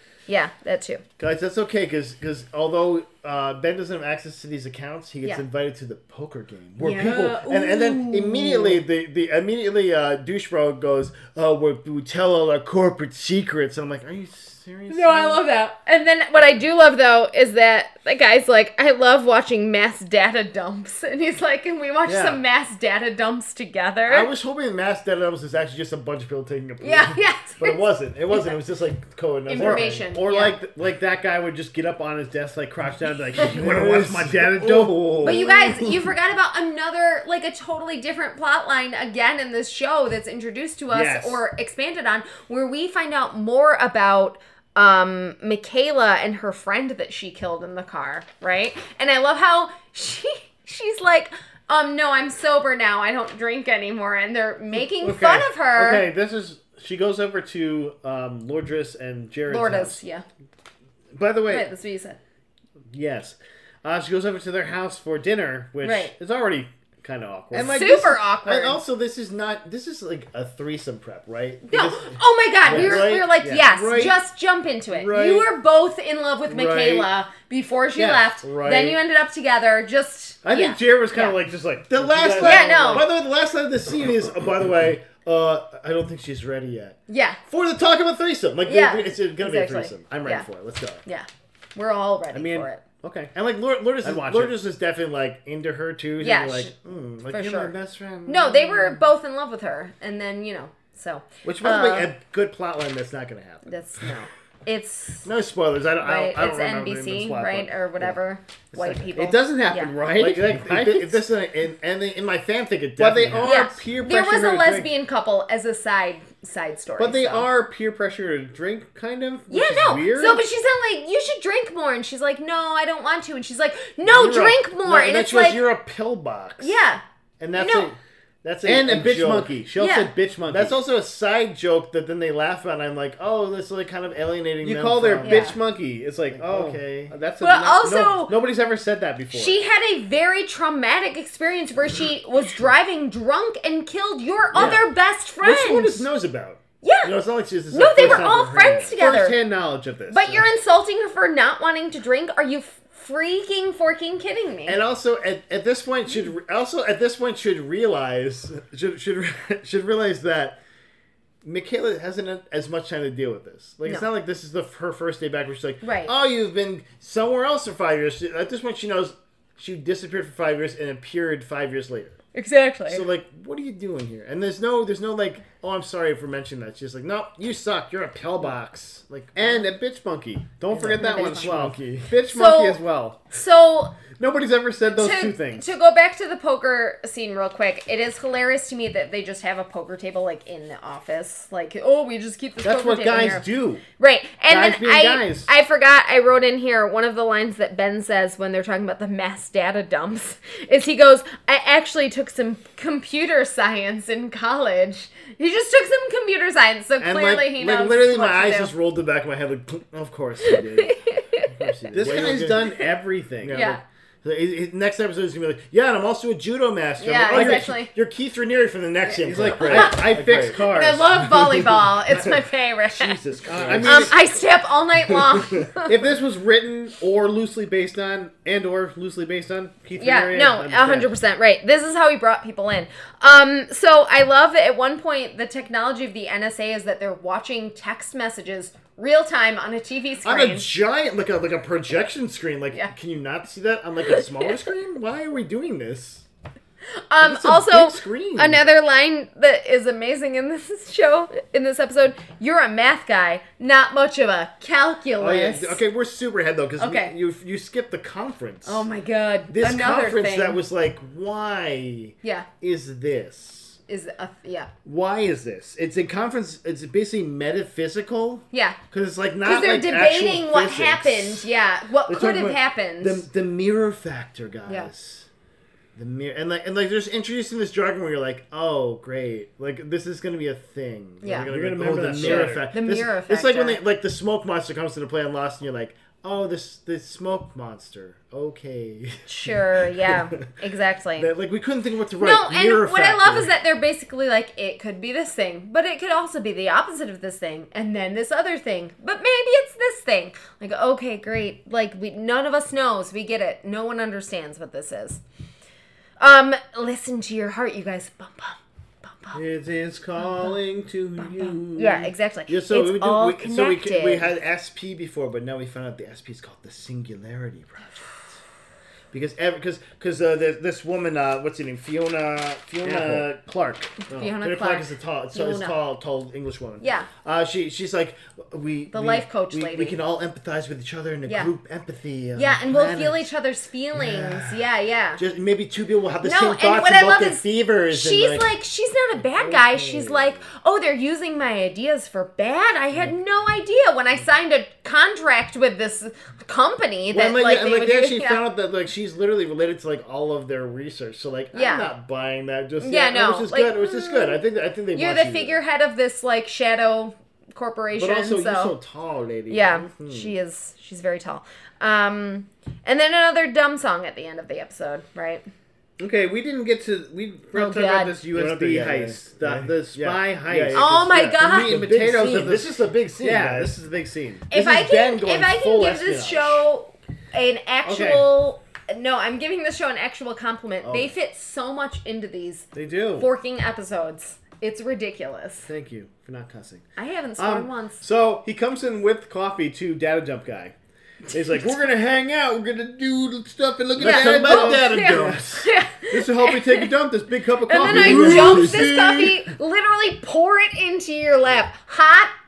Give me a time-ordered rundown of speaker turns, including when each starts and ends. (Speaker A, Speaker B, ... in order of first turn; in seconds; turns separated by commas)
Speaker A: 0.3-1.0, Speaker B: 1.2-15.4, Speaker A: 6.8-8.8, Speaker A: 14.9-24.3, Speaker C: 22.1-22.4, Speaker B: 24.1-30.1, Speaker A: 26.8-28.5, Speaker A: 29.5-30.6, Speaker C: 29.6-35.5, Speaker B: 33.5-35.9, Speaker A: 35.2-56.1, Speaker C: 40.9-41.4, Speaker C: 54.7-60.0, Speaker A: 59.5-60.2, Speaker C: 61.1-61.7, Speaker A: 61.5-62.2, Speaker C: 62.9-68.2, Speaker A: 65.8-66.1, Speaker A: 67.5-68.8, Speaker B: 67.6-67.9, Speaker B: 68.5-74.2, Speaker A: 71.7-81.4, Speaker C: 72.6-74.1, Speaker C: 74.9-75.5, Speaker C: 76.5-77.1, Speaker C: 78.0-79.0, Speaker C: 80.4-83.1, Speaker B: 81.9-91.0, Speaker A: 82.4-83.1, Speaker A: 87.1-87.4, Speaker A: 88.7-90.5, Speaker A: 91.0-92.8, Speaker C: 92.3-93.3, Speaker B: 93.3-99.1, Speaker C: 94.0-94.6, Speaker A: 96.2-96.8, Speaker A: 97.3-97.7, Speaker A: 98.3-102.1, Speaker B: 101.4-103.7, Speaker A: 103.7-105.3, Speaker B: 105.2-108.2, Speaker A: 106.0-109.9, Speaker B: 108.7-109.4, Speaker C: 109.2-111.2, Speaker B: 110.1-113.8, Speaker C: 113.0-114.9, Speaker A: 113.4-117.5, Speaker C: 117.0-120.4, Speaker A: 119.5-125.6, Speaker B: 124.0-126.8, Speaker A: 126.6-127.0, Speaker B: 127.4-129.5, Speaker A: 127.6-127.9, Speaker C: 128.6-130.8, Speaker A: 129.8-130.1, Speaker B: 130.5-135.5, Speaker C: 134.6-139.6, Speaker A: 135.2-135.6, Speaker B: 136.3-137.1, Speaker A: 137.4-138.4, Speaker A: 139.3-146.1, Speaker C: 144.5-144.8, Speaker B: 144.5-144.8, Speaker B: 145.4-149.0, Speaker A: 146.8-147.1, Speaker A: 147.7-149.4, Speaker C: 149.0-150.5, Speaker A: 150.1-154.8, Speaker B: 154.7-160.6, Speaker B: 161.4-172.2, Speaker A: 165.8-166.1, Speaker A: 172.3-173.1, Speaker B: 172.9-179.6, Speaker C: 179.3-183.2, Speaker B: 180.7-182.1, Speaker A: 180.8-181.5, Speaker A: 182.3-182.8, Speaker A: 183.3-183.9, Speaker C: 184.2-185.6, Speaker A: 184.9-193.5, Speaker C: 192.6-193.8, Speaker A: 194.0-208.7, Speaker C: 194.5-195.5, Speaker B: 207.0-212.8, Speaker A: 210.4-211.8, Speaker C: 211.9-213.8, Speaker B: 213.4-220.7, Speaker A: 213.5-213.8, Speaker A: 217.0-217.9, Speaker C: 217.3-217.7, Speaker A: 219.1-223.2, Speaker C: 219.2-221.1, Speaker B: 221.2-222.4, Speaker B: 222.9-224.2, Speaker C: 223.5-224.1, Speaker A: 223.8-225.9, Speaker B: 225.1-225.7, Speaker C: 225.9-231.1, Speaker A: 230.0-240.7, Speaker B: 240.2-246.2, Speaker A: 244.1-244.4, Speaker A: 247.1-255.8, Speaker B: 247.2-248.6, Speaker B: 255.2-258.9, Speaker A: 256.8-257.1, Speaker A: 258.6-260.6, Speaker B: 259.5-263.8, Speaker A: 262.2-262.5, Speaker A: 263.9-264.7, Speaker B: 264.9-271.5, Speaker A: 268.5-268.8, Speaker A: 269.4-273.3, Speaker B: 272.1-275.3, Speaker B: 276.0-290.5, Speaker A: 281.2-281.5, Speaker C: 281.4-282.7, Speaker A: 282.1-283.8, Speaker A: 289.3-291.3, Speaker B: 291.2-293.5, Speaker A: 292.2-305.2, Speaker A: 306.2-309.4, Speaker C: 309.3-312.1, Speaker A: 310.2-310.6, Speaker A: 311.2-314.3, Speaker B: 312.5-318.4, Speaker B: 319.1-323.4, Speaker C: 322.8-324.0, Speaker A: 324.1-325.8, Speaker B: 324.1-333.3, Speaker A: 326.8-327.1, Speaker A: 328.9-330.0, Speaker A: 332.4-335.2, Speaker B: 333.9-334.6, Speaker B: 335.2-338.5, Speaker A: 336.2-348.4, Speaker B: 339.4-340.5, Speaker B: 347.1-355.6, Speaker A: 351.5-351.9, Speaker A: 352.8-354.4, Speaker A: 354.9-358.8, Speaker B: 357.9-360.3, Speaker A: 359.5-365.5, Speaker C: 366.0-374.5, Speaker A: 367.5-368.2, Speaker B: 368.3-373.8, Speaker A: 370.7-371.8, Speaker B: 374.5-376.7, Speaker A: 374.5-385.7, Speaker C: 377.8-378.3, Speaker B: 380.8-381.1, Speaker C: 382.7-383.3, Speaker C: 385.7-386.9, Speaker A: 387.0-388.0, Speaker C: 387.4-390.8, Speaker C: 391.3-395.4, Speaker B: 394.0-395.7, Speaker A: 394.0-396.9, Speaker C: 396.0-398.9, Speaker A: 397.7-402.3, Speaker B: 397.8-399.4